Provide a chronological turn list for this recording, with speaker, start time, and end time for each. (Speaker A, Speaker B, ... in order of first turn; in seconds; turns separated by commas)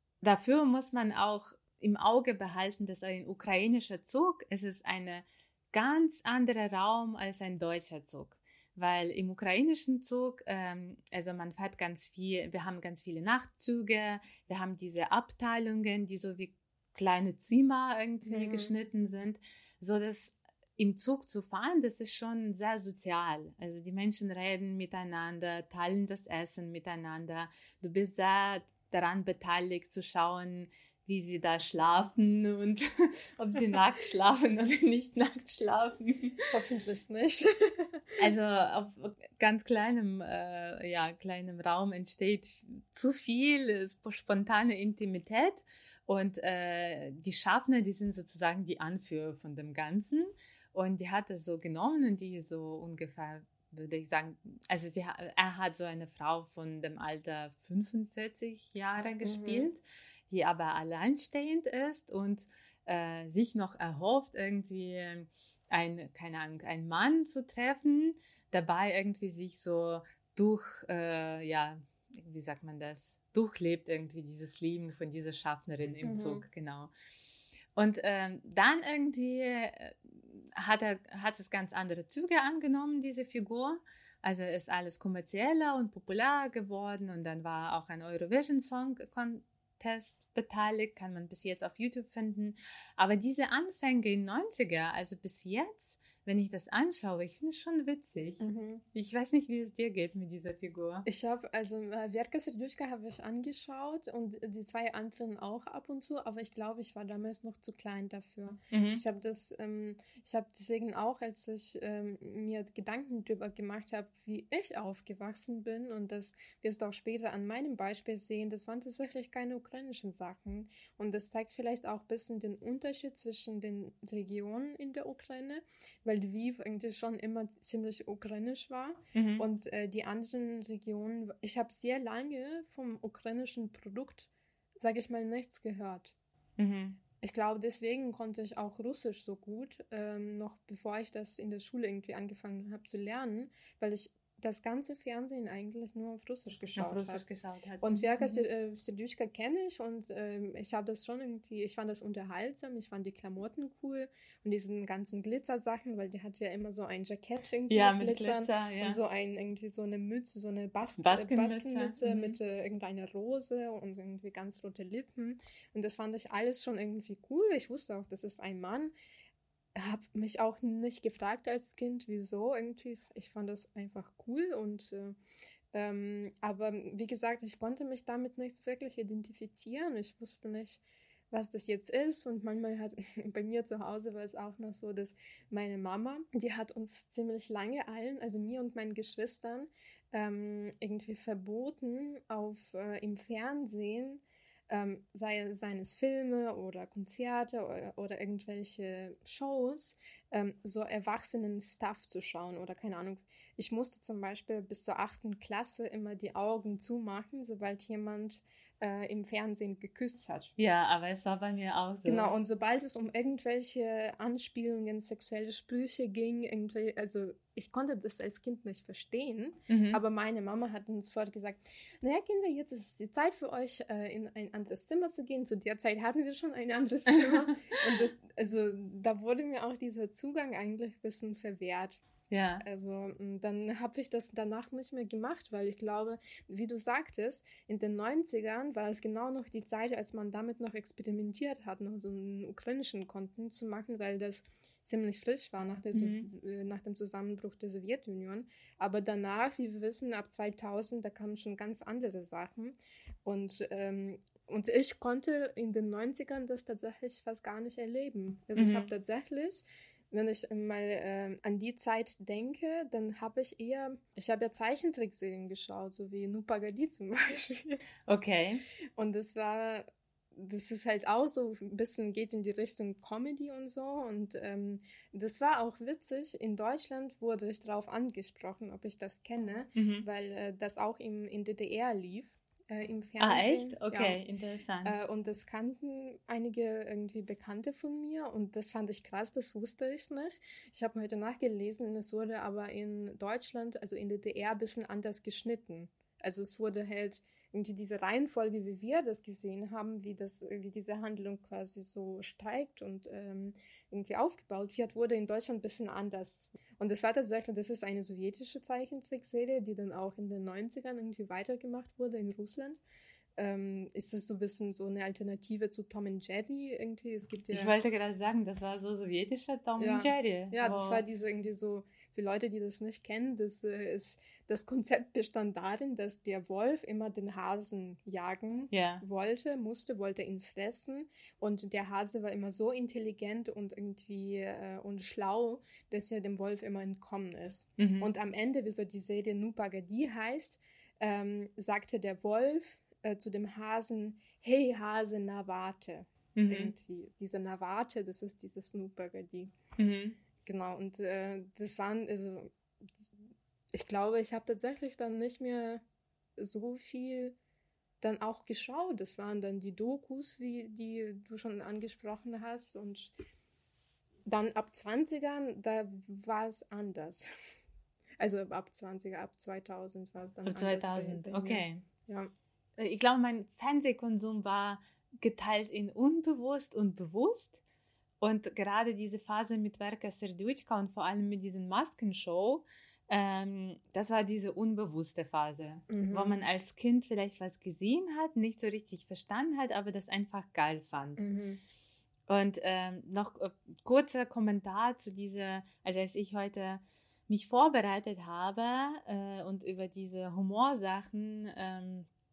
Speaker A: 0.2-36.5, Speaker B: 18.2-18.7, Speaker B: 36.5-38.0, Speaker A: 38.2-76.9, Speaker B: 59.2-59.7, Speaker B: 76.0-76.4, Speaker A: 77.8-101.1, Speaker B: 98.4-98.8, Speaker B: 101.1-136.1, Speaker A: 108.7-109.0, Speaker A: 129.1-129.4, Speaker A: 136.6-137.0, Speaker B: 137.2-147.2, Speaker A: 146.8-148.4, Speaker B: 147.8-168.9, Speaker A: 157.7-159.0, Speaker A: 161.0-162.4, Speaker B: 169.8-175.2, Speaker B: 175.7-210.5, Speaker A: 210.6-212.3, Speaker B: 212.1-232.0, Speaker A: 219.7-220.0, Speaker A: 232.3-232.6, Speaker B: 232.6-267.8, Speaker A: 245.9-246.3, Speaker A: 258.6-258.9, Speaker A: 268.1-268.6, Speaker B: 269.0-284.2, Speaker A: 279.8-280.1, Speaker A: 283.2-284.9, Speaker B: 284.8-312.8, Speaker B: 313.4-317.7, Speaker A: 317.5-321.0, Speaker B: 319.8-349.5, Speaker A: 328.7-329.0, Speaker A: 337.8-338.1, Speaker A: 346.4-346.7, Speaker A: 349.8-350.2, Speaker B: 350.4-353.1, Speaker B: 353.7-355.8, Speaker B: 356.4-357.4, Speaker B: 358.0-363.1, Speaker B: 364.2-367.5, Speaker B: 368.2-372.3, Speaker A: 370.4-371.8, Speaker A: 372.8-377.6, Speaker A: 378.2-391.2, Speaker B: 385.9-386.4, Speaker B: 391.2-391.6, Speaker A: 392.3-402.1